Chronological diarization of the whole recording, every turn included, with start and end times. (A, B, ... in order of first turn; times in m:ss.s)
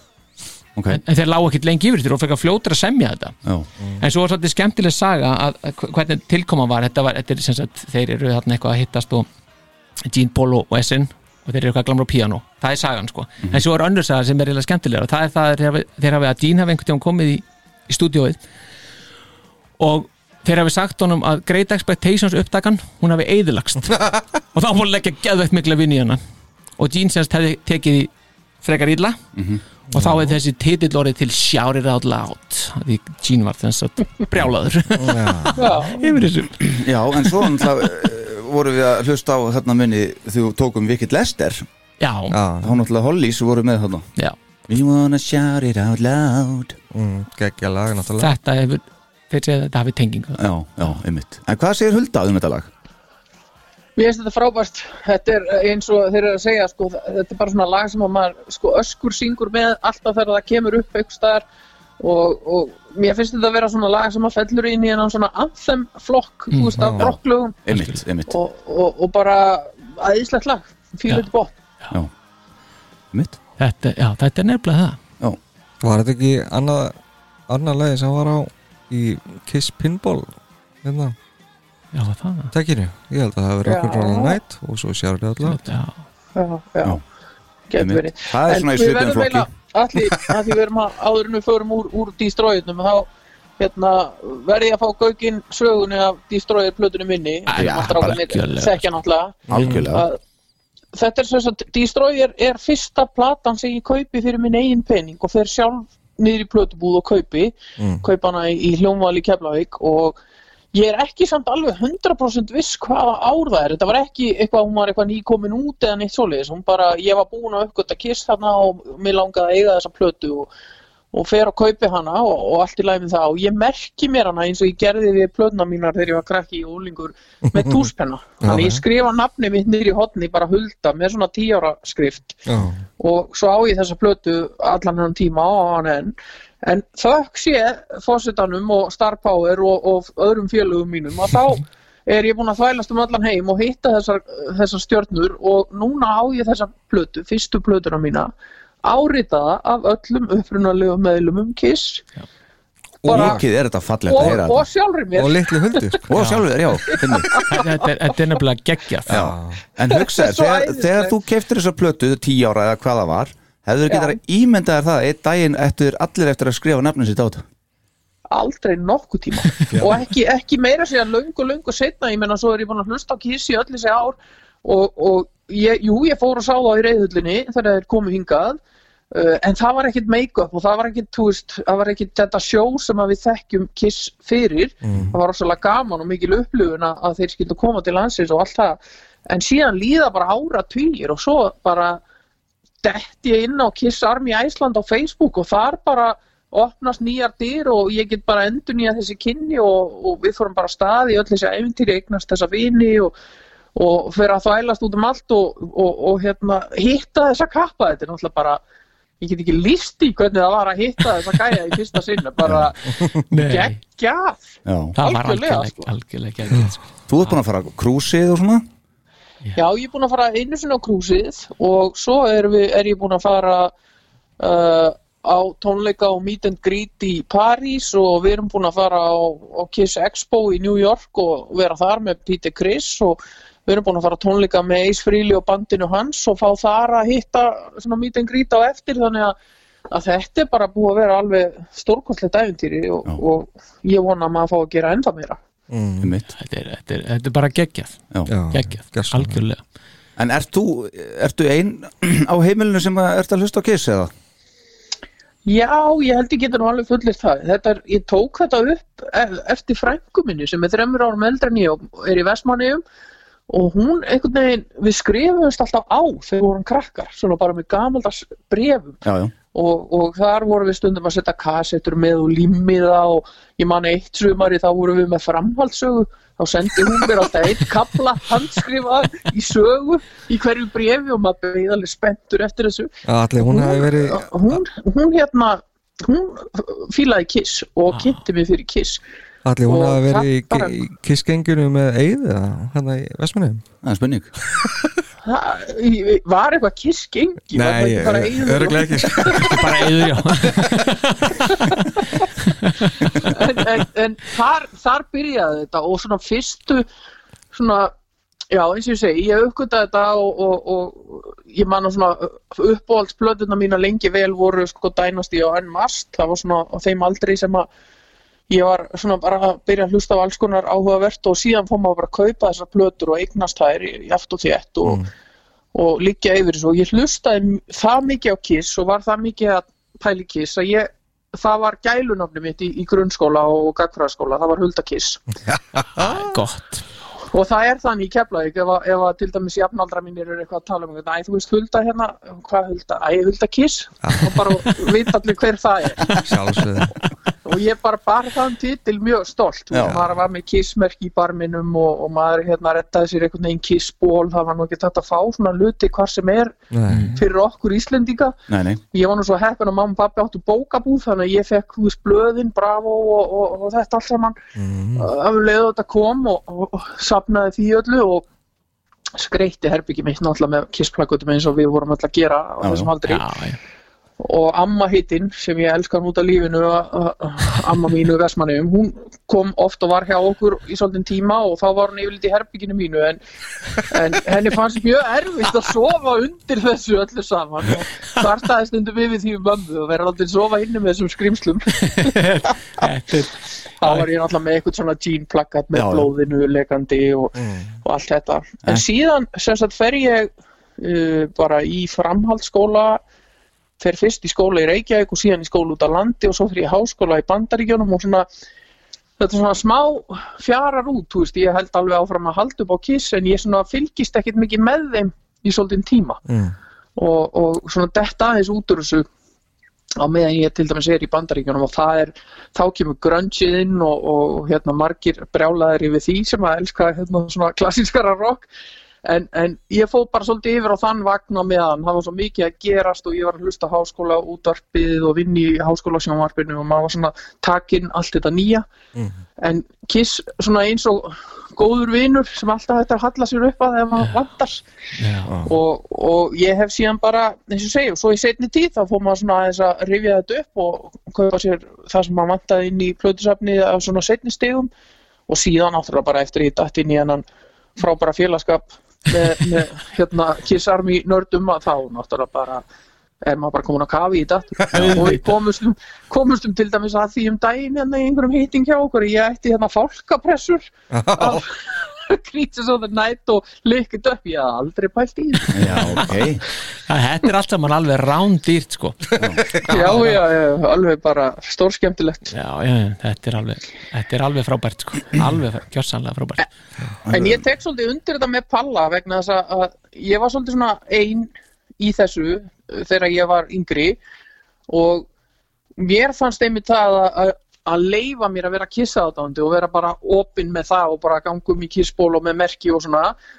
0:00.8-0:01.0 A
0:00.9-0:03.4 B
0:04.0-0:09.3 B
0:10.0-0:18.4 B
0:19.8-0:26.2 B
0:26.8-0:28.1 B
0:28.6-0:29.2 B
0:29.3-0:29.6 A
0:29.9-0:30.3 C
0:29.9-0:37.4 B
0:35.0-0:35.8 C
0:35.6-0:36.0 D
0:36.7-0:41.6 A
0:42.0-0:42.3 B
0:42.3-0:42.7 C
0:42.6-0:44.1 A
0:44.7-0:46.8 A
0:46.9-0:48.4 C
0:48.2-0:50.4 B
0:50.4-0:52.7 A
0:54.0-1:01.4 D
1:02.0-1:07.6 D
1:06.5-1:06.9 B
1:06.8-1:07.1 C
1:07.0-1:08.4 A
1:07.7-1:08.0 B
1:08.3-1:11.6 D
1:13.6-1:15.0 B
1:15.8-1:16.9 C
1:17.5-1:21.1 C
1:21.9-1:22.5 B
1:22.5-1:25.6 C
1:23.6-1:24.4 D
1:25.4-1:26.0 B
1:26.3-1:27.0 D
1:27.7-1:40.2 D
1:27.8-1:29.5 A
1:37.5-1:38.9 B
1:37.6-1:38.2 A
1:39.5-1:40.1 A
1:39.5-1:39.8 C
1:40.9-1:50.2 D
1:47.8-1:48.0 C
1:50.7-2:00.5 D
2:01.1-2:12.4 D
2:07.5-2:07.9 C
2:08.4-2:08.8 C
2:12.5-2:12.8 C
2:13.0-2:28.3 D
2:28.8-2:32.0 D
2:33.0-2:33.4 C
2:33.1-2:34.6 A
2:33.1-2:33.4 D
2:34.0-2:36.0 D
2:35.1-2:36.0 C
2:36.1-2:37.4 A
2:36.2-2:36.4 B
2:36.8-2:37.6 D
2:37.5-2:39.1 B
2:39.1-2:47.4 A
2:39.1-2:39.6 C
2:39.9-2:41.1 D
2:43.9-2:44.2 D
2:48.3-2:58.6 D
2:49.7-2:50.0 C
2:59.1-3:12.0 D
3:04.8-3:05.2 C
3:12.8-3:23.1 D
3:23.7-3:28.6 D
3:29.2-3:35.9 D
3:32.4-3:32.7 A
3:33.3-3:33.8 B
3:34.6-3:35.0 A
3:35.0-3:37.3 B
3:37.1-3:38.6 A
3:39.6-3:43.7 D
3:44.4-3:59.4 D
3:59.9-4:05.4 D
4:05.7-4:06.1 C
4:06.0-4:06.3 A
4:06.3-4:08.0 B
4:08.3-4:09.4 C
4:08.5-4:09.6 B
4:10.2-4:14.1 A
4:15.4-4:22.8 D
4:23.5-4:29.0 D
4:29.0-4:29.3 A
4:29.5-4:49.0 D
4:43.0-4:44.6 C
4:47.9-4:48.2 B
4:49.4-4:53.6 C
4:49.6-4:50.8 D
4:53.8-4:54.3 A
4:55.2-4:59.6 D
4:57.5-4:59.6 C
4:59.4-5:01.6 B
5:01.7-5:02.2 D
5:02.4-5:02.9 B
5:03.2-5:06.9 D
5:07.5-5:07.9 D
5:08.5-5:17.7 D
5:18.5-5:25.1 D
5:25.7-5:35.2 D
5:35.6-5:36.2 C
5:35.9-5:36.8 B
5:37.3-5:46.2 D
5:44.0-5:44.5 C
5:46.2-5:47.0 C
5:47.4-5:56.6 D
5:49.7-5:50.0 A
5:56.7-5:57.1 C
5:56.9-5:57.2 B
5:57.1-5:58.4 D
5:58.5-5:58.8 A
5:58.9-6:04.4 D
6:04.6-6:05.1 C
6:05.0-6:08.3 D
6:09.1-6:13.2 D
6:12.6-6:12.9 A
6:13.0-6:13.6 B
6:14.2-6:23.2 D
6:23.9-6:32.1 D
6:31.9-6:34.1 B
6:33.8-6:43.0 D
6:35.7-6:36.1 A
6:37.4-6:37.7 C
6:43.8-6:48.3 D
6:49.2-6:56.2 D
6:56.3-6:56.5 C
6:57.0-6:59.1 D
7:00.0-7:08.5 D
7:09.0-7:18.6 D
7:18.9-7:19.2 C
7:19.4-7:24.6 D
7:25.0-7:25.3 B
7:25.3-7:25.6 C
7:25.4-7:34.7 D
7:35.3-7:37.2 D
7:37.8-7:42.6 D
7:43.2-7:55.8 D
7:44.7-7:45.1 C
7:44.8-7:45.2 B
7:50.9-7:51.4 C
7:55.5-7:56.4 A
7:56.9-7:59.0 B
7:59.1-7:59.6 C
7:59.2-7:59.4 A
7:59.7-8:00.2 B
7:59.7-8:02.3 D
8:02.3-8:06.4 B
8:07.0-8:07.4 A
8:07.1-8:14.0 D
8:14.7-8:15.1 D
8:15.8-8:23.2 D